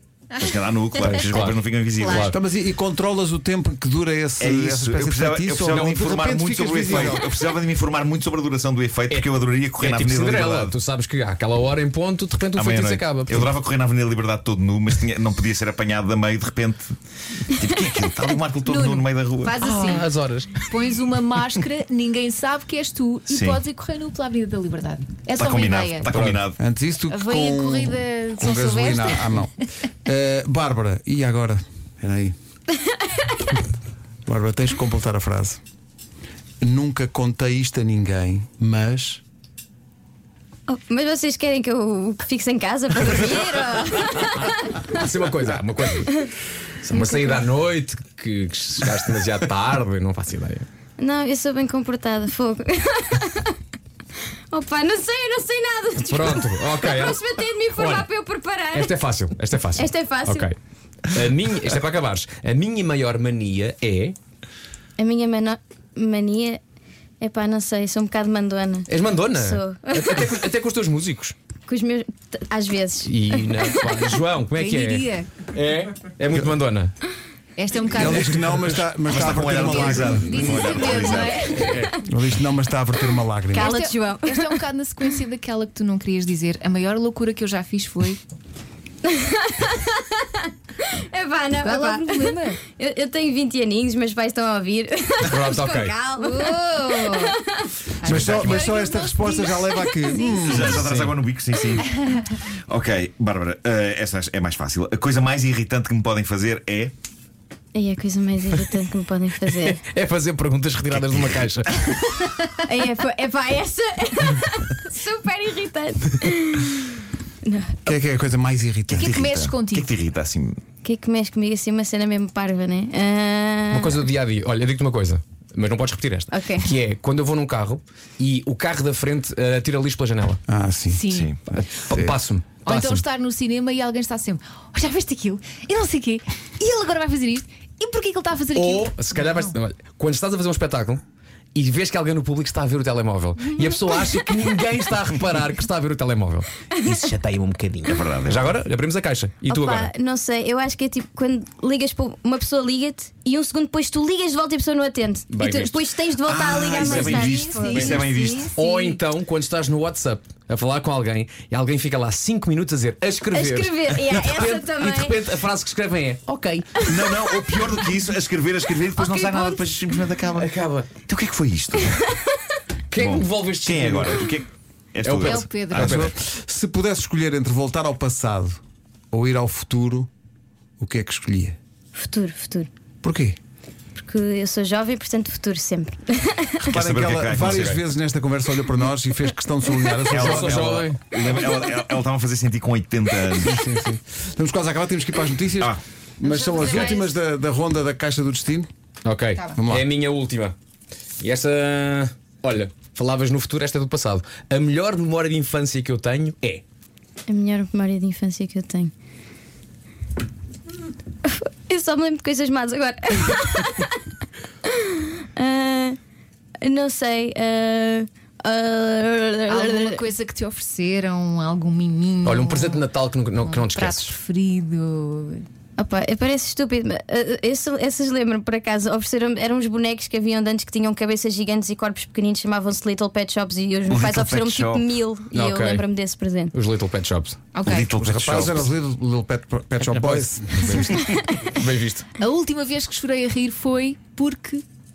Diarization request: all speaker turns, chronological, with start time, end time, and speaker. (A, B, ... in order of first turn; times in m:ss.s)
0:00.4-0:02.3 A
0:01.0-0:02.4 B
0:02.1-0:07.2 C
0:04.4-0:10.7 A
0:05.7-0:06.3 B
0:06.8-0:07.2 B
0:09.1-0:13.5 B
0:12.5-0:19.6 A
0:18.7-0:20.1 D
0:19.6-0:20.6 B
0:20.6-0:26.1 D
0:23.3-0:23.6 A
0:25.3-0:26.6 A
0:26.1-0:32.3 C
0:27.1-0:29.4 D
0:32.9-0:33.4 E
0:34.2-0:35.6 C
0:36.6-0:39.2 C
0:40.7-0:45.0 E
0:44.8-0:46.2 B
0:46.8-0:50.6 B
0:47.0-0:47.4 E
0:51.0-0:53.6 E
0:54.5-0:59.0 E
0:56.0-0:58.1 B
0:58.7-1:04.2 B
0:59.7-1:00.5 E
1:05.0-1:06.6 E
1:07.2-1:10.3 E
1:08.9-1:11.3 B
1:11.7-1:13.9 E
1:13.0-1:16.9 B
1:14.5-1:15.3 D
1:17.6-1:18.5 D
1:17.9-1:21.3 C
1:18.1-1:21.7 A
1:19.7-1:21.8 D
1:21.5-1:21.9 B
1:21.8-1:23.7 C
1:23.5-1:25.2 E
1:23.5-1:28.2 D
1:29.0-1:37.8 E
1:31.6-1:32.6 D
1:35.2-1:36.0 B
1:36.2-1:37.3 D
1:38.0-1:40.7 D
1:38.0-1:40.9 C
1:38.0-1:38.7 A
1:39.8-1:40.6 E
1:40.4-1:41.9 A
1:40.6-1:41.2 B
1:42.4-1:46.9 A
1:47.7-1:49.8 E
1:48.5-1:48.8 B
1:49.4-1:52.6 B
1:50.9-1:51.6 A
1:52.6-1:57.9 E
1:57.8-1:59.2 C
1:58.9-2:00.6 A
1:59.0-1:59.9 D
2:00.8-2:04.0 E
2:03.7-2:10.4 B
2:06.3-2:06.7 E
2:10.5-2:12.2 C
2:10.9-2:11.3 D
2:11.1-2:11.4 A
2:11.8-2:13.0 B
2:12.6-2:19.5 D
2:18.5-2:21.0 B
2:21.5-2:29.9 B
2:26.7-2:27.1 E
2:27.8-2:28.5 A
2:29.4-2:38.1 E
2:35.3-2:35.8 B
2:36.2-2:38.5 A
2:36.6-2:38.0 B
2:37.0-2:39.0 D
2:38.5-2:46.7 B
2:43.3-2:45.2 E
2:46.8-2:47.0 E
2:46.8-2:52.0 A
2:49.0-2:49.7 E
2:50.3-2:50.9 B
2:52.9-2:54.3 B
2:52.9-2:56.1 A
2:55.0-2:55.9 B
2:55.2-2:56.0 D
2:55.7-2:58.6 C
2:59.1-3:00.1 C
3:00.8-3:01.6 C
3:02.0-3:02.7 E
3:03.0-3:03.4 C
3:04.0-3:06.7 E
3:06.6-3:07.6 A
3:06.7-3:11.0 C
3:07.4-3:07.8 B
3:10.1-3:13.5 A
3:10.1-3:11.0 B
3:13.4-3:18.7 C
3:16.2-3:17.2 D
3:19.0-3:20.5 B
3:19.6-3:19.8 C
3:21.2-3:26.6 B
3:27.3-3:28.9 E
3:31.2-3:34.0 E
3:34.6-3:36.0 E
3:36.6-3:40.1 E
3:39.5-3:42.8 D
3:42.2-3:44.2 B
3:43.4-3:45.5 D
3:45.8-3:56.5 E
3:55.3-3:55.8 B
3:56.5-3:57.4 B
3:57.5-3:57.9 D
3:57.6-3:58.7 A
3:57.9-4:01.1 C
3:59.8-4:02.1 B
4:00.9-4:01.4 E
4:02.2-4:04.6 D